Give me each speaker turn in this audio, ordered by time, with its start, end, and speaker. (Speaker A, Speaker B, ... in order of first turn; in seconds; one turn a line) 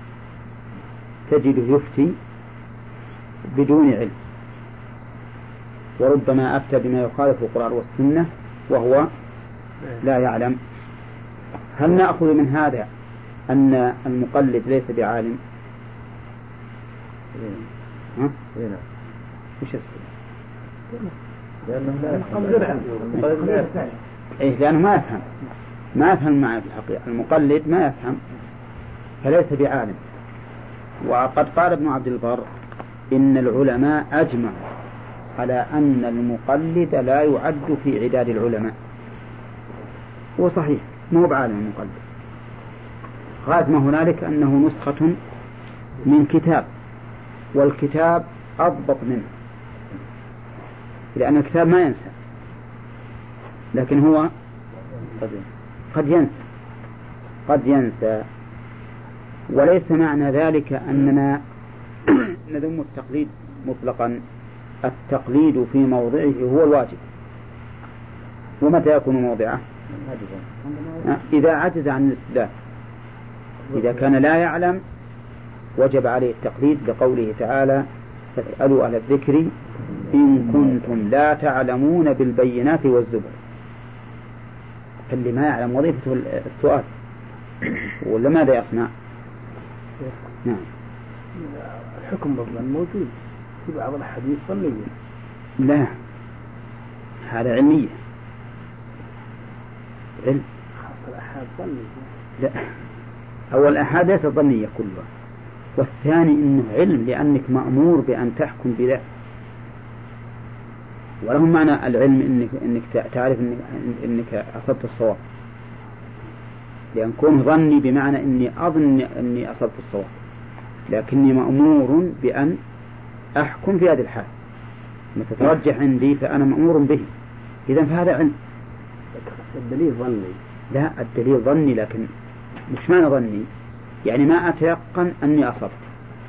Speaker A: 1.3-2.2
Speaker A: 3.5-4.2
Speaker A: 6.0-9.1
Speaker A: 10.0-10.6
Speaker A: 11.7-12.9
Speaker A: 13.5-15.4
Speaker B: 17.4-17.6
Speaker B: 18.6-18.8
Speaker A: 19.6-20.1
Speaker B: 21.6-23.8
Speaker C: 22.0-24.0
Speaker A: 24.4-25.2
Speaker A: 25.9-28.2
Speaker A: 29.2-30.0
Speaker A: 31.0-32.5
Speaker A: 33.1-34.7
Speaker A: 35.4-38.7
Speaker A: 40.4-42.0
Speaker A: 43.4-45.2
Speaker A: 46.0-46.7
Speaker A: 47.5-49.3
Speaker A: 51.1-52.1
Speaker A: 53.7-54.3
Speaker B: 55.1-55.5
Speaker A: 55.9-56.3
Speaker A: 57.5-58.3
Speaker A: 59.5-61.4
Speaker A: 62.1-64.2
Speaker A: 64.8-67.0
Speaker A: 68.6-69.6
Speaker B: 69.9-71.1
Speaker A: 71.0-72.5
Speaker A: 73.7-74.8
Speaker A: 75.8-79.5
Speaker A: 80.1-83.4
Speaker A: 85.1-86.9
Speaker A: 87.9-88.9
Speaker C: 91.3-94.9
Speaker A: 95.6-96.0
Speaker A: 97.3-98.0
Speaker C: 100.8-102.1
Speaker A: 102.4-102.7
Speaker A: 103.5-105.1
Speaker A: 105.8-109.0
Speaker A: 111.2-115.2
Speaker A: 116.9-120.1
Speaker A: 120.9-122.6
Speaker A: 123.4-124.3
Speaker A: 125.2-127.1
Speaker A: 127.7-128.3
Speaker C: 129.2-130.4
Speaker A: 130.7-132.1
Speaker A: 132.7-133.5
Speaker A: 134.1-135.9